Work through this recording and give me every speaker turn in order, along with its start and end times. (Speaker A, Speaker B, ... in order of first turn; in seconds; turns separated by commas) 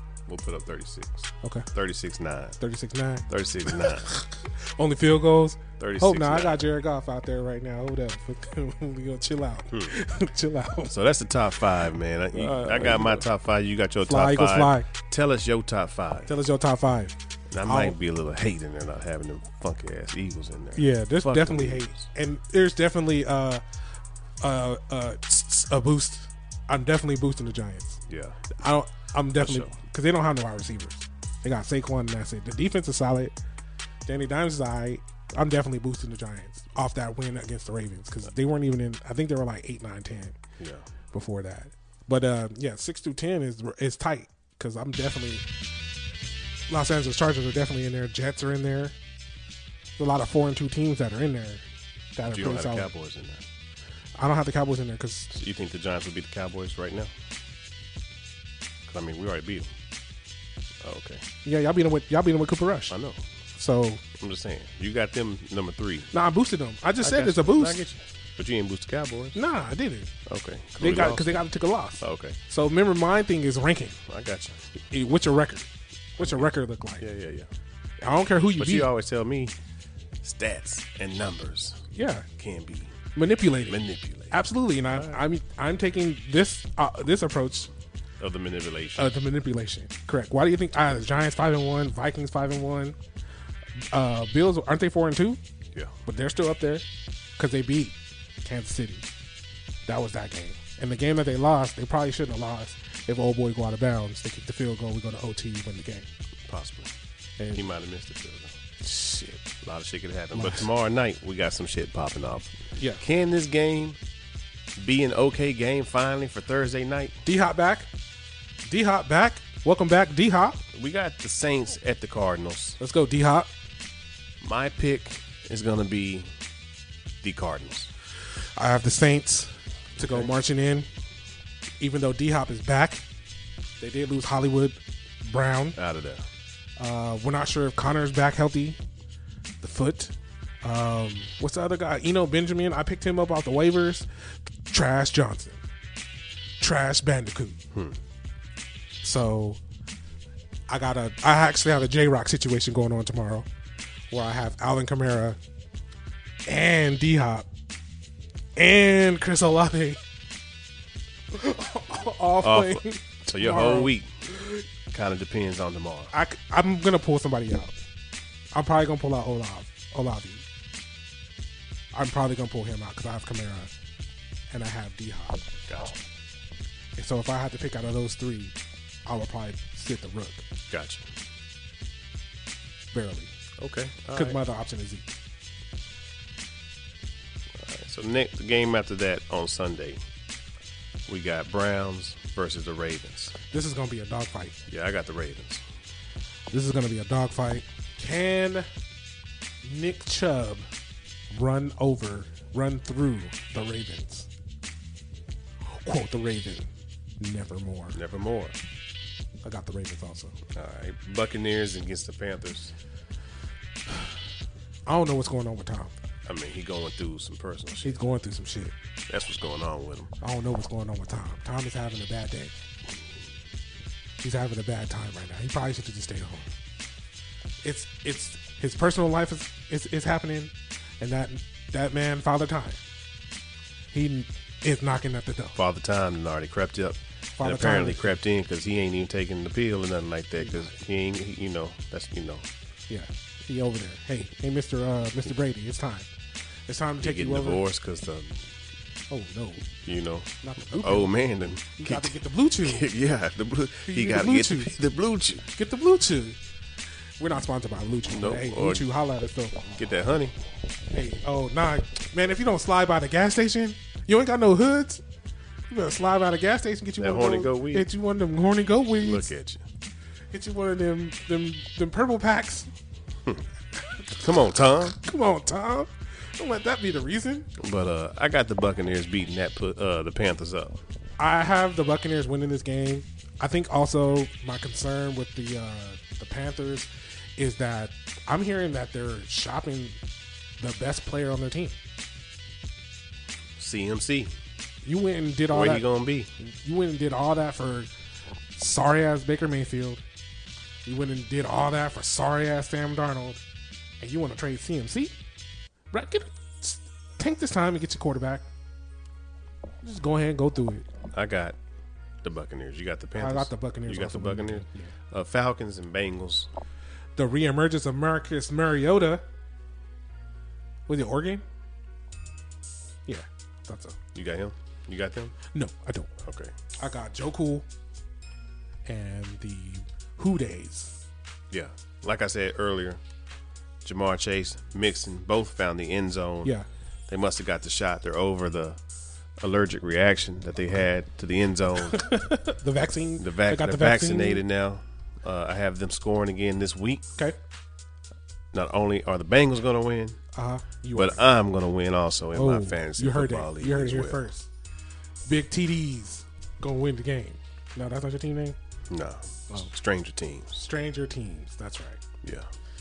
Speaker A: 0.3-2.6, Speaker B: 2.6-10.9, Speaker A: 3.3-4.1, Speaker A: 5.8-6.7, Speaker A: 10.9-16.3, Speaker B: 12.3-13.2, Speaker B: 14.0-14.9, Speaker B: 16.3-18.0, Speaker A: 17.5-22.1, Speaker B: 20.8-23.6, Speaker B: 24.4-28.0, Speaker A: 28.1-28.4, Speaker B: 28.6-33.3, Speaker A: 29.4-29.7, Speaker B: 34.1-40.4, Speaker A: 40.6-40.9, Speaker B: 41.1-45.4, Speaker B: 46.7-49.0, Speaker B: 50.0-52.9, Speaker A: 52.3-53.4, Speaker B: 54.2-55.3, Speaker A: 55.3-57.1, Speaker A: 58.9-59.7, Speaker A: 60.8-61.2, Speaker B: 61.5-63.0, Speaker A: 62.9-63.3, Speaker B: 63.5-64.0, Speaker A: 64.2-66.1, Speaker B: 66.1-67.8, Speaker A: 67.0-69.4, Speaker B: 69.3-70.1, Speaker A: 70.3-71.3, Speaker B: 70.8-74.0, Speaker A: 72.0-72.4, Speaker A: 74.1-74.6, Speaker B: 74.9-77.1, Speaker A: 76.2-77.5, Speaker B: 78.0-78.9, Speaker A: 78.6-79.6, Speaker A: 80.2-83.0, Speaker B: 81.9-82.3, Speaker B: 83.2-87.7, Speaker A: 83.7-85.3, Speaker A: 88.2-89.1, Speaker B: 89.0-93.0, Speaker B: 93.9-95.4, Speaker B: 96.1-96.9, Speaker B: 97.4-99.1, Speaker B: 99.9-106.1, Speaker A: 106.5-106.9, Speaker B: 107.4-107.7, Speaker A: 107.5-108.5, Speaker B: 108.8-109.5, Speaker A: 109.6-114.0, Speaker B: 110.3-110.7, Speaker B: 112.8-113.0, Speaker A: 114.8-117.2, Speaker B: 117.2-117.9, Speaker B: 118.7-120.6, Speaker A: 120.7-122.8, Speaker B: 122.8-123.5, Speaker A: 124.4-126.3, Speaker A: 127.2-127.9, Speaker B: 128.6-130.9, Speaker A: 130.0-130.3, Speaker B: 131.8-133.0, Speaker B: 133.8-135.8, Speaker A: 135.8-136.3, Speaker B: 136.8-138.8, Speaker B: 139.6-144.1, Speaker B: 144.7-145.6, Speaker B: 146.6-147.6, Speaker B: 149.0-149.6, Speaker B: 150.7-153.5, Speaker B: 154.1-155.4, Speaker B: 156.5-157.5, Speaker B: 158.6-160.0, Speaker B: 161.3-164.6, Speaker A: 162.4-164.2, Speaker A: 164.9-166.1, Speaker B: 166.1-167.7, Speaker B: 168.5-170.4, Speaker B: 171.9-173.7, Speaker B: 174.5-175.5, Speaker A: 175.7-176.0, Speaker B: 177.0-178.6, Speaker B: 179.1-180.5, Speaker A: 180.7-181.1, Speaker B: 182.9-183.3, Speaker A: 183.6-184.4, Speaker B: 184.1-185.1, Speaker A: 187.5-190.0, Speaker A: 191.1-193.3, Speaker B: 193.5-194.6, Speaker A: 194.7-195.6, Speaker B: 196.5-198.7, Speaker B: 199.6-200.7, Speaker B: 201.3-204.3, Speaker B: 205.7-206.7, Speaker B: 207.2-208.0, Speaker A: 207.9-208.6, Speaker B: 209.4-210.3, Speaker A: 210.5-212.7, Speaker B: 214.9-215.9, Speaker A: 216.2-218.0, Speaker B: 217.8-218.7, Speaker A: 219.1-220.1, Speaker B: 220.2-222.5, Speaker B: 224.2-226.4, Speaker B: 227.6-232.8, Speaker B: 233.9-235.6, Speaker A: 235.6-242.5, Speaker B: 237.4-238.2, Speaker B: 240.4-240.7, Speaker B: 242.9-246.1, Speaker B: 246.7-247.6, Speaker A: 247.0-248.4, Speaker B: 249.1-249.7, Speaker A: 249.8-255.5, Speaker B: 250.4-251.2, Speaker B: 251.8-252.9, Speaker B: 253.9-254.8, Speaker B: 255.4-256.4, Speaker B: 257.2-259.7, Speaker A: 258.1-258.9, Speaker A: 259.7-260.4, Speaker B: 260.9-265.0, Speaker B: 265.7-269.3, Speaker A: 267.0-267.9, Speaker A: 269.0-269.6, Speaker B: 270.3-272.7, Speaker B: 273.9-274.2, Speaker A: 274.2-275.0, Speaker B: 274.9-277.5, Speaker A: 277.6-280.8, Speaker B: 281.2-290.0, Speaker B: 290.6-291.8, Speaker A: 293.6-294.3, Speaker B: 294.8-295.9, Speaker A: 295.5-296.3, Speaker B: 296.4-297.9, Speaker B: 298.6-300.0, Speaker B: 300.9-303.4, Speaker B: 304.0-305.1, Speaker B: 305.9-308.5, Speaker B: 309.8-310.9, Speaker A: 311.1-311.6, Speaker A: 312.2-316.5, Speaker B: 313.2-314.9, Speaker B: 317.2-319.2, Speaker B: 320.9-321.4, Speaker B: 323.1-324.0, Speaker A: 324.1-325.4, Speaker B: 325.5-326.1, Speaker A: 326.2-326.5, Speaker B: 326.8-327.7, Speaker B: 328.9-331.0, Speaker A: 331.5-333.0, Speaker A: 333.8-336.5, Speaker A: 337.1-338.8, Speaker A: 339.4-342.1, Speaker B: 341.9-344.4, Speaker A: 343.2-347.1, Speaker A: 348.5-350.2, Speaker B: 350.3-351.2, Speaker A: 350.9-354.3, Speaker B: 352.3-354.5, Speaker B: 355.3-358.6, Speaker A: 358.9-360.6, Speaker B: 360.6-362.0, Speaker A: 362.2-362.5